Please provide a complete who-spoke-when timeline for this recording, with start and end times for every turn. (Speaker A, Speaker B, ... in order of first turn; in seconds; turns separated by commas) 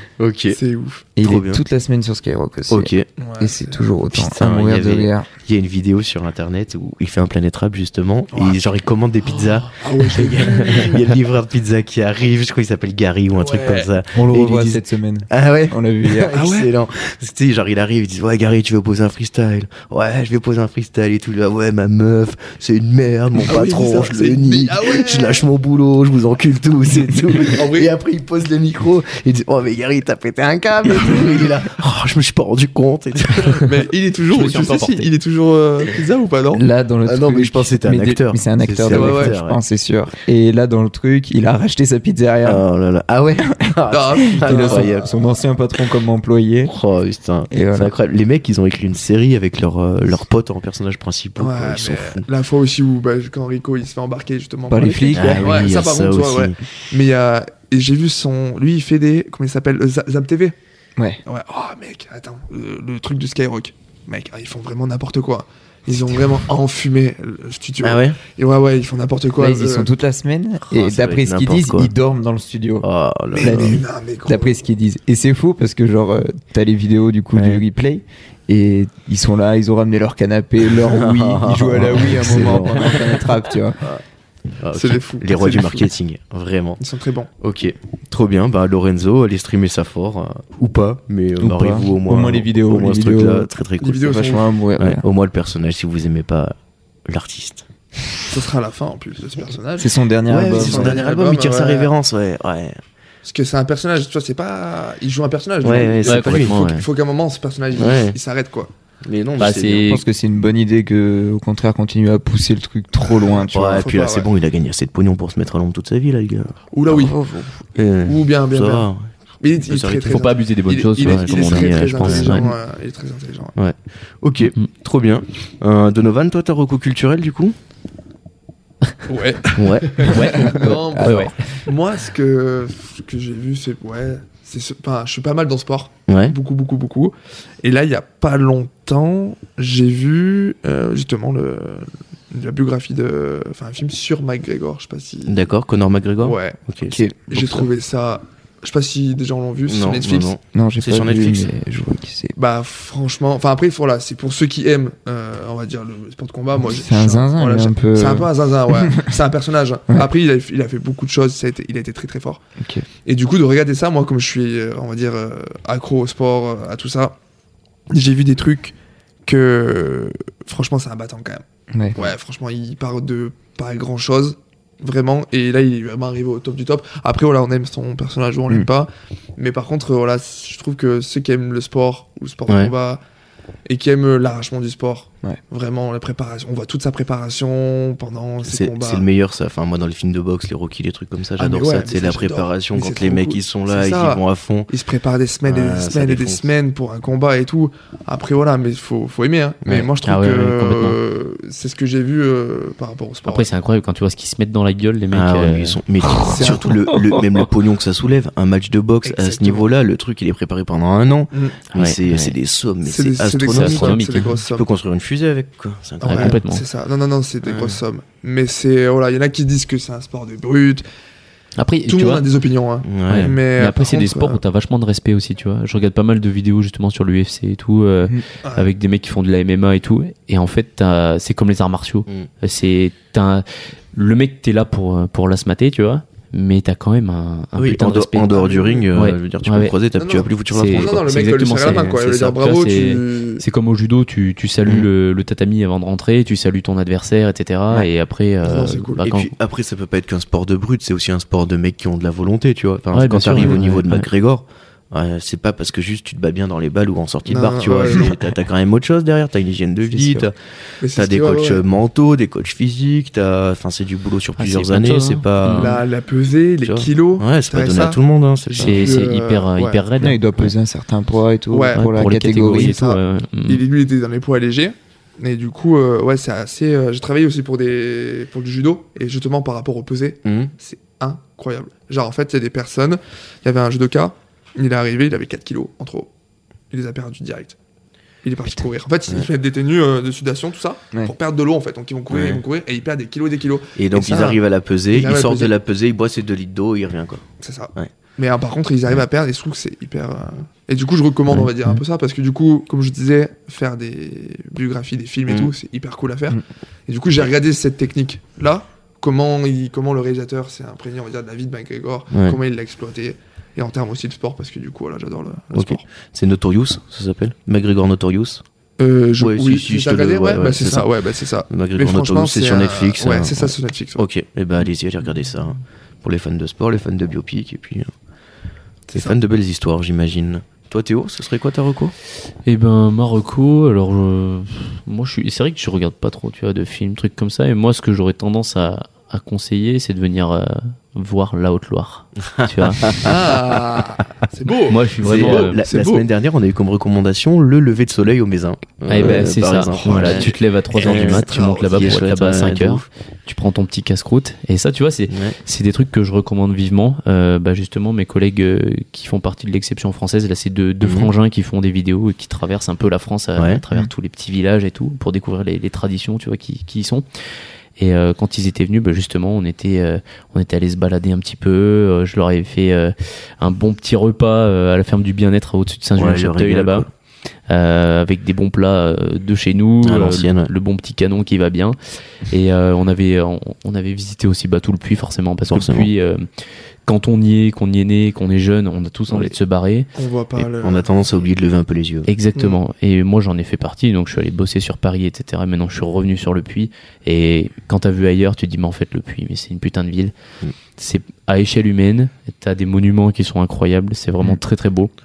Speaker A: 0.2-0.6, Speaker B: 0.5-1.0, Speaker C: 1.1-5.3, Speaker A: 1.2-1.6, Speaker A: 2.7-3.1, Speaker B: 3.2-3.9, Speaker A: 4.1-33.6, Speaker B: 8.3-8.6, Speaker B: 9.2-11.2, Speaker B: 13.4-13.9, Speaker C: 14.1-16.4, Speaker B: 16.3-16.7, Speaker B: 23.4-25.4, Speaker B: 27.3-27.9, Speaker B: 31.1-31.3, Speaker B: 33.5-36.6, Speaker D: 34.3-35.1, Speaker C: 36.5-42.6, Speaker A: 37.0-39.6, Speaker B: 38.9-39.3, Speaker A: 42.4-45.2, Speaker C: 43.5-46.7, Speaker B: 43.9-45.2, Speaker A: 46.7-52.2, Speaker C: 47.5-47.9, Speaker B: 51.4-60.5, Speaker C: 54.7-55.7, Speaker A: 55.1-56.6, Speaker B: 61.2-69.9, Speaker A: 67.8-68.2, Speaker C: 69.4-72.8, Speaker A: 70.7-71.9, Speaker A: 72.8-73.8, Speaker B: 73.3-74.6, Speaker C: 73.4-83.8, Speaker A: 77.3-77.6, Speaker A: 80.7-83.3, Speaker A: 84.6-86.8, Speaker B: 84.7-85.9, Speaker B: 86.8-87.3, Speaker A: 87.4-94.2, Speaker C: 91.4-93.5, Speaker B: 93.8-94.5, Speaker C: 94.0-95.0, Speaker A: 94.8-96.5, Speaker A: 97.1-97.7, Speaker B: 98.3-99.9, Speaker C: 99.8-101.0, Speaker A: 100.3-102.8, Speaker B: 100.4-101.9, Speaker B: 103.2-108.7, Speaker A: 105.6-106.6, Speaker D: 106.0-106.8, Speaker A: 107.7-108.2, Speaker A: 109.0-109.9, Speaker D: 109.4-110.0, Speaker C: 109.8-113.9, Speaker B: 113.0-114.3, Speaker A: 113.5-116.6, Speaker B: 116.7-117.2, Speaker C: 116.9-117.5, Speaker A: 117.8-119.1, Speaker B: 118.0-118.9, Speaker B: 119.4-123.5, Speaker A: 119.6-120.1, Speaker D: 120.1-122.5, Speaker A: 121.0-122.5, Speaker A: 123.5-127.5, Speaker B: 129.1-145.4, Speaker A: 129.5-130.3, Speaker D: 130.1-131.3, Speaker C: 130.2-131.4, Speaker A: 136.1-136.3, Speaker A: 145.2-147.0, Speaker B: 146.2-146.6, Speaker C: 146.8-147.7, Speaker B: 147.3-150.3, Speaker A: 149.7-151.5, Speaker C: 150.5-152.3, Speaker B: 152.3-162.4, Speaker C: 156.6-159.1, Speaker C: 162.6-162.8, Speaker B: 163.0-167.2, Speaker B: 167.9-168.7, Speaker B: 169.2-183.0, Speaker C: 171.7-172.0, Speaker A: 182.5-182.7, Speaker B: 183.7-189.1, Speaker A: 188.4-194.7, Speaker B: 191.4-203.5, Speaker A: 195.5-196.5, Speaker A: 199.6-199.9, Speaker D: 200.0-201.0, Speaker D: 203.2-206.4, Speaker A: 205.1-216.4, Speaker B: 206.2-206.8, Speaker D: 206.9-207.4, Speaker B: 209.0-209.7, Speaker B: 211.3-211.6, Speaker D: 211.7-212.3, Speaker B: 212.8-214.7, Speaker D: 213.5-214.3, Speaker B: 216.0-220.8, Speaker D: 216.0-216.6, Speaker A: 217.4-217.8, Speaker D: 221.6-222.3, Speaker B: 221.9-224.4, Speaker A: 222.8-223.3, Speaker D: 223.1-239.8, Speaker B: 228.4-228.7, Speaker A: 237.6-241.1, Speaker B: 238.3-238.9, Speaker B: 239.9-243.4, Speaker D: 240.5-249.3, Speaker B: 248.4-249.0, Speaker A: 249.0-265.8, Speaker D: 252.9-254.1, Speaker B: 257.3-258.1, Speaker C: 259.9-260.3, Speaker B: 260.8-261.6, Speaker D: 264.4-265.8, Speaker B: 265.5-269.8, Speaker A: 266.6-269.0, Speaker D: 268.6-270.5, Speaker C: 270.0-272.8, Speaker B: 271.5-286.1, Speaker D: 271.7-273.6, Speaker A: 280.2-280.5, Speaker B: 286.7-287.5, Speaker B: 288.2-294.4, Speaker A: 292.1-292.4, Speaker A: 293.8-297.2, Speaker B: 294.9-295.5, Speaker B: 297.4-315.8, Speaker C: 301.4-301.8, Speaker A: 305.3-305.5, Speaker A: 312.1-312.4, Speaker A: 315.5-318.4, Speaker B: 318.8-324.0, Speaker A: 319.2-320.9, Speaker A: 321.5-327.9, Speaker B: 328.9-329.1, Speaker A: 328.9-331.9, Speaker D: 332.4-343.1, Speaker A: 342.3-343.6, Speaker B: 343.0-346.0, Speaker D: 344.7-345.6, Speaker A: 345.0-352.9, Speaker D: 348.9-367.0, Speaker B: 349.0-352.5, Speaker A: 355.1-355.4, Speaker A: 360.8-361.1, Speaker A: 363.4-363.6, Speaker D: 367.8-376.9, Speaker A: 376.0-376.9, Speaker D: 377.5-381.8, Speaker A: 379.8-380.5, Speaker D: 382.3-389.9, Speaker A: 385.5-385.9, Speaker B: 389.9-390.9, Speaker A: 390.4-392.1, Speaker D: 392.1-400.1, Speaker D: 400.8-404.9